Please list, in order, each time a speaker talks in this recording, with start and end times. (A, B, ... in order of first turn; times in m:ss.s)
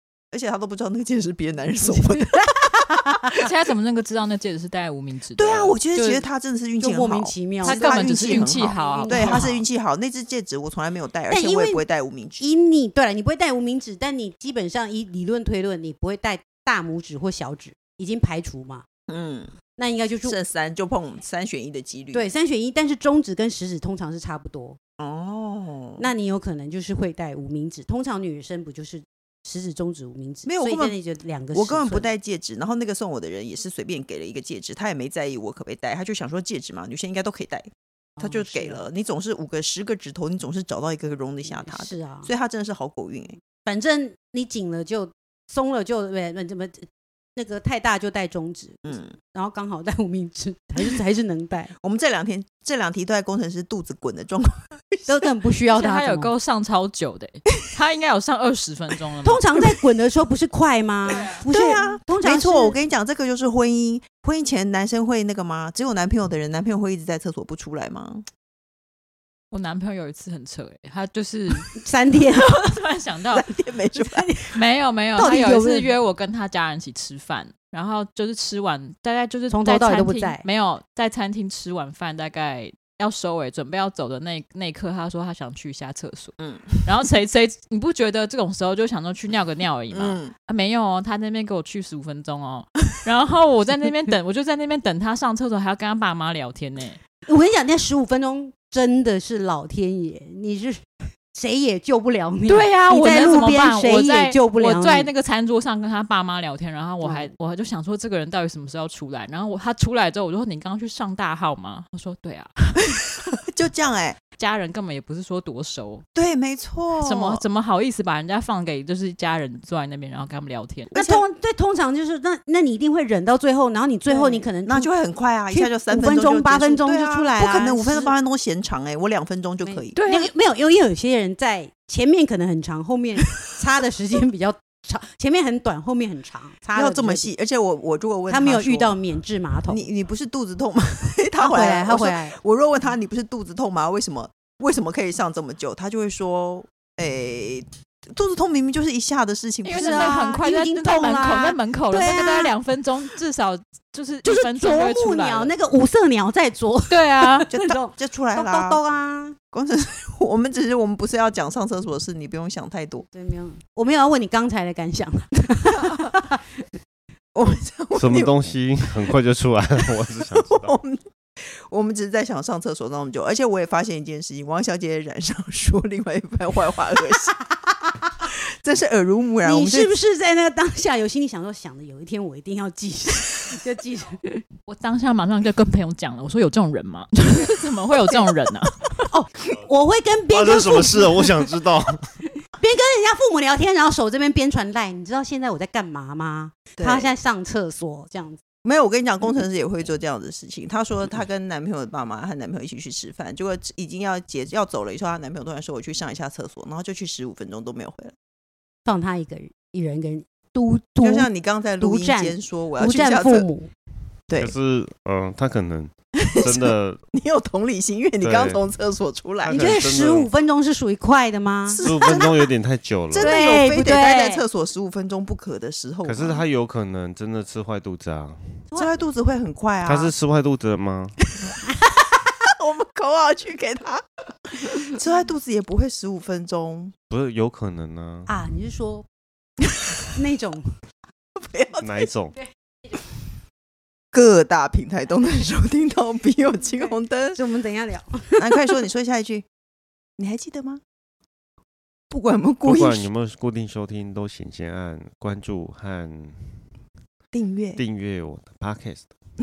0:00.3-0:02.7 A
0:01.8-0:03.3 B
0:03.4-0:06.2 C
0:05.4-0:12.4 A
0:06.8-0:09.6 B
0:07.6-0:09.6 C
0:11.3-0:11.8 B
0:12.4-0:18.8 B
0:19.1-0:19.5 A
0:19.8-0:20.4 B
0:20.2-0:22.3 A
0:22.1-0:24.8 B
0:25.0-0:26.1 A
0:26.0-0:32.1 B
0:30.4-0:31.0 A
0:31.5-0:43.4 A
0:38.2-0:38.9 B
0:41.4-0:42.3 B
0:43.6-0:51.7 B
0:48.8-0:49.2 A
0:51.8-0:55.2 A
0:55.1-0:56.3 B
0:55.7-0:59.4 C
0:59.2-1:02.8 B
1:01.1-1:01.4 C
1:01.1-1:08.3 A
1:09.5-1:13.5 C
1:11.8-1:12.6 B
1:13.3-1:14.3 A
1:13.9-1:14.6 B
1:14.5-1:37.0 C
1:15.2-1:16.0 B
1:19.5-1:20.4 B
1:26.5-1:26.8 A
1:30.0-1:30.3 A
1:37.3-1:45.1 B
1:42.5-1:52.8 C
1:47.0-1:47.3 B
1:53.2-1:54.2 A
1:54.4-1:56.0 C
1:56.2-1:57.4 A
1:57.0-2:00.9 C
2:00.9-2:01.2 A
2:00.9-2:04.9 B
2:04.1-2:10.0 A
2:05.5-2:08.1 B
2:09.6-2:17.3 B
2:10.0-2:10.3 C
2:16.8-2:19.0 A
2:18.3-2:19.9 B
2:19.7-2:30.2 A
2:21.4-2:22.4 B
2:29.6-2:35.5 C
2:29.7-2:32.5 B
2:34.2-2:39.4 B
2:36.9-2:37.5 C
2:37.5-2:38.8 A
2:39.5-2:43.1 A
2:43.1-2:46.4 B
2:47.3-2:49.0 A
2:47.9-2:50.7 D
2:50.4-2:57.4 A
2:58.5-2:59.9 A
2:59.4-3:04.4 B
3:04.7-3:09.1 C
3:09.1-3:11.6 B
3:10.3-3:12.0 D
3:12.6-3:18.4 B
3:16.8-3:17.1 A
3:18.6-3:28.2 A
3:28.8-3:31.3 B
3:31.0-3:33.5 A
3:31.8-3:33.7 B
3:34.4-3:37.0 D
3:36.3-3:39.7 A
3:38.2-3:38.6 D
3:39.5-3:41.9 B
3:39.5-3:40.3 D
3:41.7-3:42.5 A
3:41.8-3:43.3 D
3:43.1-3:46.4 A
3:43.1-3:44.4 B
3:46.0-3:48.7 D
3:48.8-3:50.1 A
3:49.8-3:51.2 D
3:51.7-3:52.1 B
3:52.5-3:57.0 A
3:57.1-3:58.3 D
3:58.3-3:59.1 B
4:00.1-4:00.7 B
4:01.4-4:02.0 A
4:01.8-4:02.4 D
4:04.1-4:07.4 A
4:06.6-4:08.5 B
4:08.4-4:09.5 A
4:10.2-4:10.8 A
4:12.1-4:13.1 A
4:12.6-4:16.6 D
4:17.3-4:17.8 A
4:17.8-4:19.1 D